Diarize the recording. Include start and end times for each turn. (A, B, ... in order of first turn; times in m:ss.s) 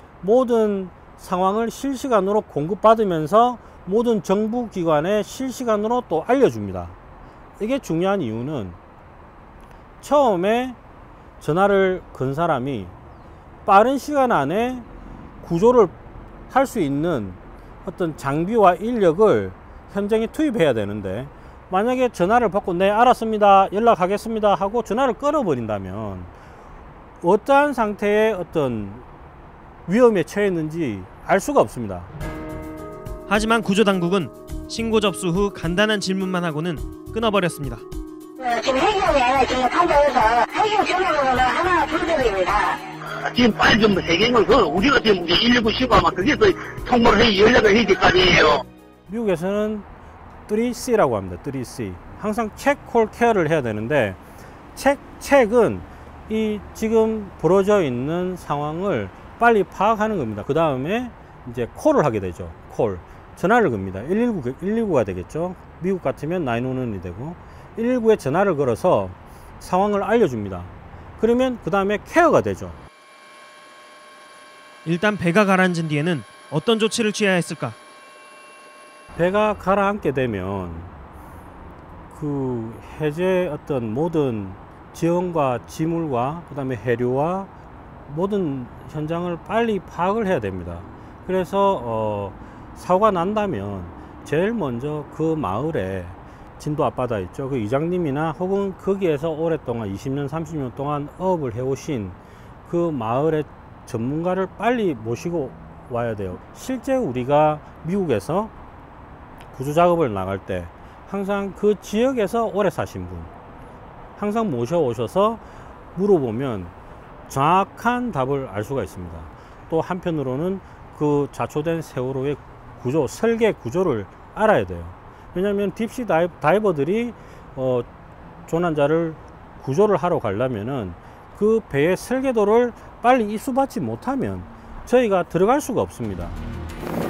0:00.2-0:07.0 A
0:07.6-0:08.8 A
0:10.0-0:10.8 A
0:11.4-0:13.0 A
0:13.6-0:14.9 A
0:15.4-0:16.0 A
0:16.5-0:26.3 A
0:27.2-0:29.0 A
0:29.9-0:32.1 A
0:33.3-0:37.8 B
0:38.4-0:42.8 C
0:43.2-0:48.6 D
0:49.1-0:49.9 A
0:50.5-0:54.2 A
0:54.8-1:12.8 A
1:14.8-1:17.8 B
1:19.2-1:20.9 A
1:22.1-1:27.5 A
1:28.1-1:48.5 A
1:49.5-1:53.3 A
1:54.2-1:56.7 A
1:57.3-2:07.9 A
2:08.5-2:16.4 A